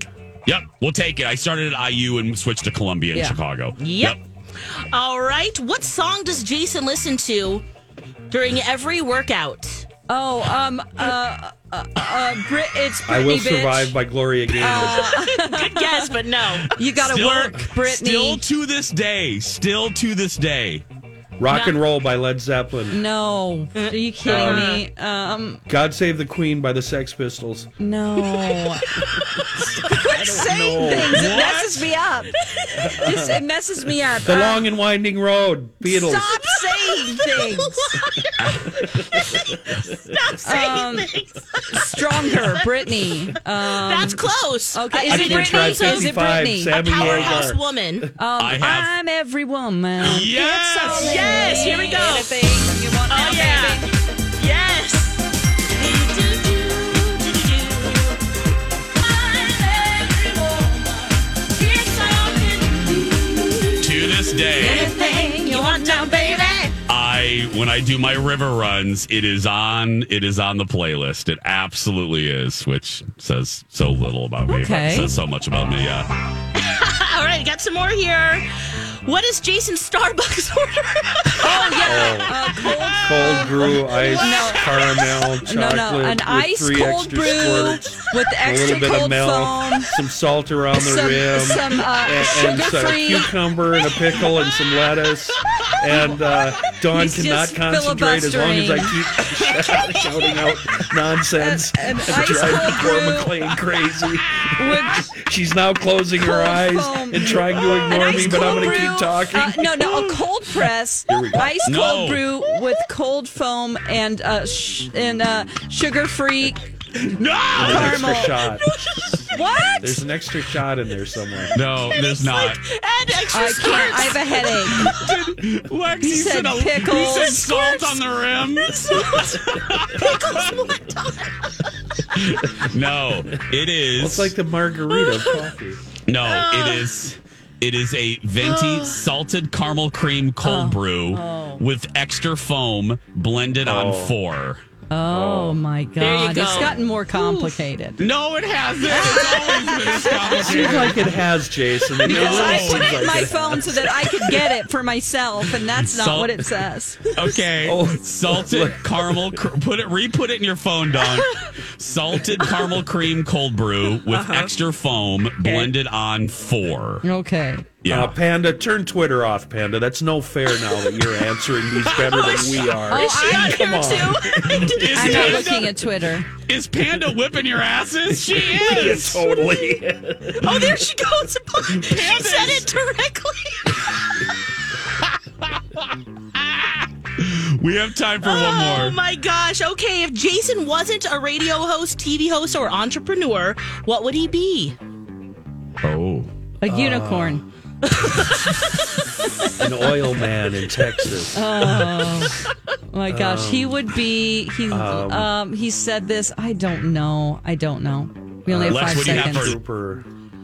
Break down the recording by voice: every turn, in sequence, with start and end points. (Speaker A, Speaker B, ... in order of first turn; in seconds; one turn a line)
Speaker A: 0.5-4.2
Speaker B: 3.8-7.7
Speaker B: 8.3-9.9
Speaker C: 10.1-13.9
Speaker D: 13.1-15.2
Speaker C: 14.6-16.1
Speaker B: 14.7-16.8
Speaker C: 16.8-18.4
Speaker A: 16.8-20.8
Speaker D: 21.4-23.1
Speaker B: 21.5-21.8
Speaker C: 22.9-25.6
Speaker B: 23.8-24.9
Speaker D: 24.3-24.8
Speaker D: 25.7-27.7
Speaker C: 27.8-29.0
Speaker B: 28.2-30.5
Speaker C: 29.6-32.3
Speaker D: 29.9-31.4
Speaker A: 30.9-31.9
Speaker B: 32.6-32.9
Speaker D: 32.8-33.4
Speaker C: 32.9-34.7
Speaker D: 34.2-36.5
Speaker C: 35.8-38.0
Speaker B: 36.4-43.1
Speaker A: 38.4-38.7
Speaker C: 40.4-41.1
Speaker C: 41.7-46.8
Speaker B: 43.6-48.1
Speaker D: 45.1-48.1
Speaker A: 47.0-47.5
Speaker C: 48.2-53.9
Speaker A: 48.4-48.9
Speaker A: 50.0-51.8
Speaker B: 51.0-52.4
Speaker B: 53.1-58.2
Speaker B: 59.0-60.9
Speaker B: 61.5-63.7
Speaker A: 63.8-64.9
Speaker B: 64.6-66.7
Speaker C: 64.6-66.7
Speaker A: 66.9-76.1
Speaker C: 74.5-75.1
Speaker B: 76.6-82.8
Speaker C: 81.4-90.0
Speaker D: 81.8-82.4
Speaker D: 83.0-87.9
Speaker B: 84.2-85.0
Speaker D: 88.4-109.9
Speaker C: 90.7-93.3
Speaker C: 96.9-99.0
Speaker C: 101.4-103.5
Speaker C: 104.6-105.1
Speaker C: 106.2-116.7
Speaker A: 107.6-108.8
Speaker A: 109.8-110.2
Speaker A: 111.1-112.3
Speaker A: 117.0-118.2
Speaker D: 117.5-121.6
Speaker C: 117.6-118.4
Speaker B: 118.5-119.3
Speaker C: 119.3-120.0
Speaker A: 121.5-122.6
Speaker B: 121.9-124.9
Speaker C: 123.3-125.0
Speaker A: 124.7-130.5
Speaker C: 126.0-127.9
Speaker B: 127.3-127.8
Speaker B: 128.5-131.8
Speaker A: 132.1-134.4
Speaker D: 134.0-135.8
Speaker B: 134.9-135.5
Speaker A: 136.1-144.6
Speaker B: 136.2-136.9
Speaker B: 138.4-139.0
Speaker C: 140.4-141.6
Speaker D: 143.6-144.2
Speaker C: 144.9-148.0
Speaker D: 145.1-145.6
Speaker B: 146.0-147.6
Speaker A: 148.0-151.1
Speaker C: 148.9-151.2
Speaker B: 149.2-150.1
Speaker D: 150.4-154.0
Speaker C: 152.0-157.1
Speaker A: 152.1-153.2
Speaker A: 155.8-156.4
Speaker A: 157.1-167.0
Speaker D: 157.6-159.4
Speaker B: 164.1-164.5
Speaker B: 165.4-165.7
Speaker C: 167.0-167.7
Speaker A: 167.8-168.2
Speaker D: 167.9-175.5
Speaker B: 171.8-175.5
Speaker C: 172.9-174.0
Speaker A: 174.4-175.9
Speaker C: 174.9-176.3
Speaker A: 176.4-179.3
Speaker D: 178.1-180.9
Speaker B: 180.4-184.4
Speaker A: 181.7-182.7
Speaker A: 185.0-189.0
Speaker B: 188.2-194.8
Speaker A: 195.8-196.3
Speaker C: 196.6-197.4
Speaker D: 196.7-197.5
Speaker B: 197.9-198.7
Speaker D: 199.6-201.7
Speaker C: 201.3-209.6
Speaker D: 203.1-203.9
Speaker D: 204.7-205.3
Speaker D: 208.5-210.1
Speaker A: 208.7-209.6